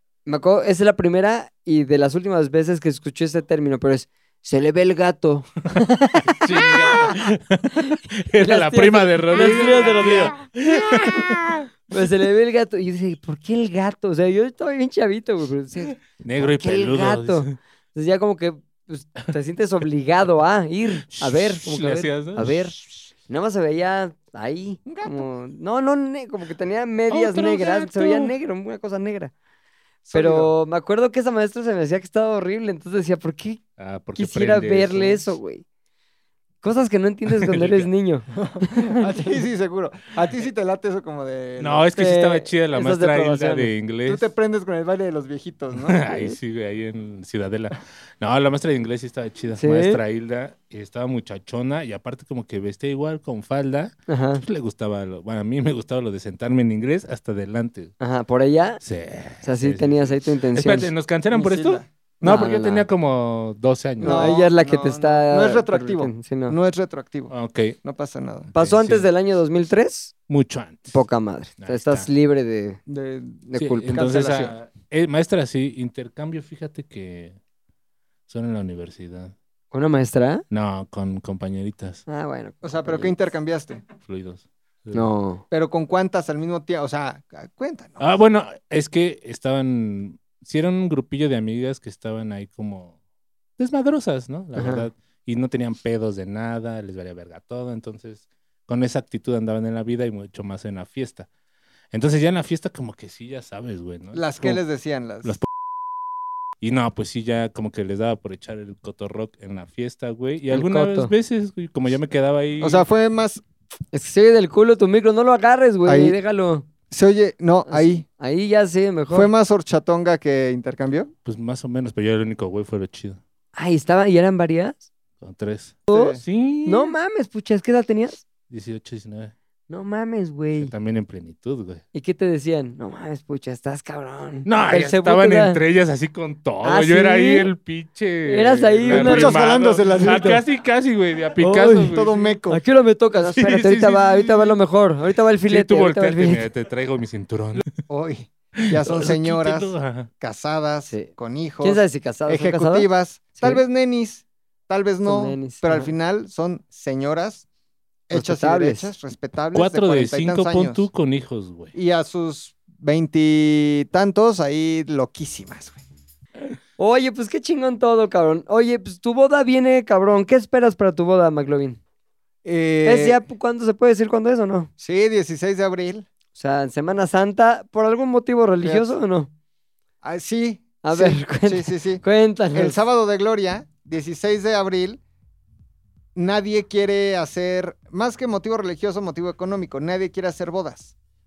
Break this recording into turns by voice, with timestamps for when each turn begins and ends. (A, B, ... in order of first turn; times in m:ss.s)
0:00.2-0:29.3 A
0:06.3-0:11.6 B
0:06.5-0:07.1 C
0:16.1-0:17.6 B
0:21.0-0:22.8 B
0:24.9-0:25.3 C
0:27.1-0:28.3 B
0:30.0-0:30.5 C
0:30.1-0:33.6 A
0:33.8-0:35.3 B
0:34.2-0:35.6 A
0:36.6-0:39.1 A
0:37.3-0:37.9 B
0:38.4-0:41.9 C
0:41.6-0:44.3 B
0:41.9-0:43.7 A
0:44.1-0:46.1 C
0:45.8-0:57.9 B
0:49.6-0:50.0 A
0:54.1-0:54.4 A
0:58.0-0:58.8 A
0:58.8-1:04.4 B
0:59.4-1:00.9 A
1:01.3-1:02.4 C
1:02.2-1:02.8 A
1:04.0-1:06.6 A
1:04.0-1:07.3 C
1:07.3-1:07.8 B
1:07.8-1:08.5 C
1:08.5-1:09.1 B
1:08.6-1:10.1 A
1:10.3-1:11.0 B
1:10.9-1:12.8 A
1:11.6-1:12.1 B
1:12.9-1:14.5 C
1:13.5-1:14.2 A
1:13.6-1:17.4 B
1:18.3-1:19.3 B
1:19.7-1:20.4 A
1:20.5-1:22.0 B
1:22.1-1:23.2 A
1:22.6-1:23.8 C
1:24.0-1:25.1 B
1:24.9-1:25.4 A
1:25.5-1:28.1 C
1:28.0-1:33.0 B
1:33.6-1:41.3 B
1:34.6-1:34.9 A
1:41.9-1:44.6 B
1:44.1-1:45.4 C
1:46.6-1:52.8 B
1:50.5-1:51.1 A
1:52.6-1:53.4 C
1:53.9-1:56.7 A
1:55.9-1:56.2 C
1:56.9-1:58.0 C
1:57.7-1:59.3 A
1:59.1-2:01.1 C
2:01.2-2:03.2 B
2:03.6-2:04.8 A
2:05.2-2:07.0 B
2:05.9-2:08.2 A
2:05.9-2:06.2 C
2:08.5-2:09.3 B
2:09.7-2:10.7 A
2:10.6-2:11.8 B
2:11.9-2:15.6 A
2:14.4-2:22.4 B
2:16.6-2:17.5 A
2:18.2-2:19.4 A
2:18.9-2:20.4 C
2:21.4-2:22.0 A
2:21.9-2:22.6 C
2:22.5-2:26.5 A
2:23.2-2:24.6 B
2:25.5-2:27.6 B
2:27.8-2:37.5 C
2:28.6-2:30.1 B
2:30.9-2:33.6 A
2:35.0-2:35.9 A
2:38.1-2:40.9 C
2:38.1-2:38.9 A
2:39.5-2:41.7 B
2:41.7-2:45.8 C
2:46.8-2:51.8 A
2:52.4-2:53.2 C
2:52.8-2:54.7 A
2:54.8-2:56.1 C
2:56.3-2:59.3 A
2:58.6-2:59.0 C
3:00.0-3:05.0 C
3:00.8-3:02.8 A
3:06.2-3:10.9 C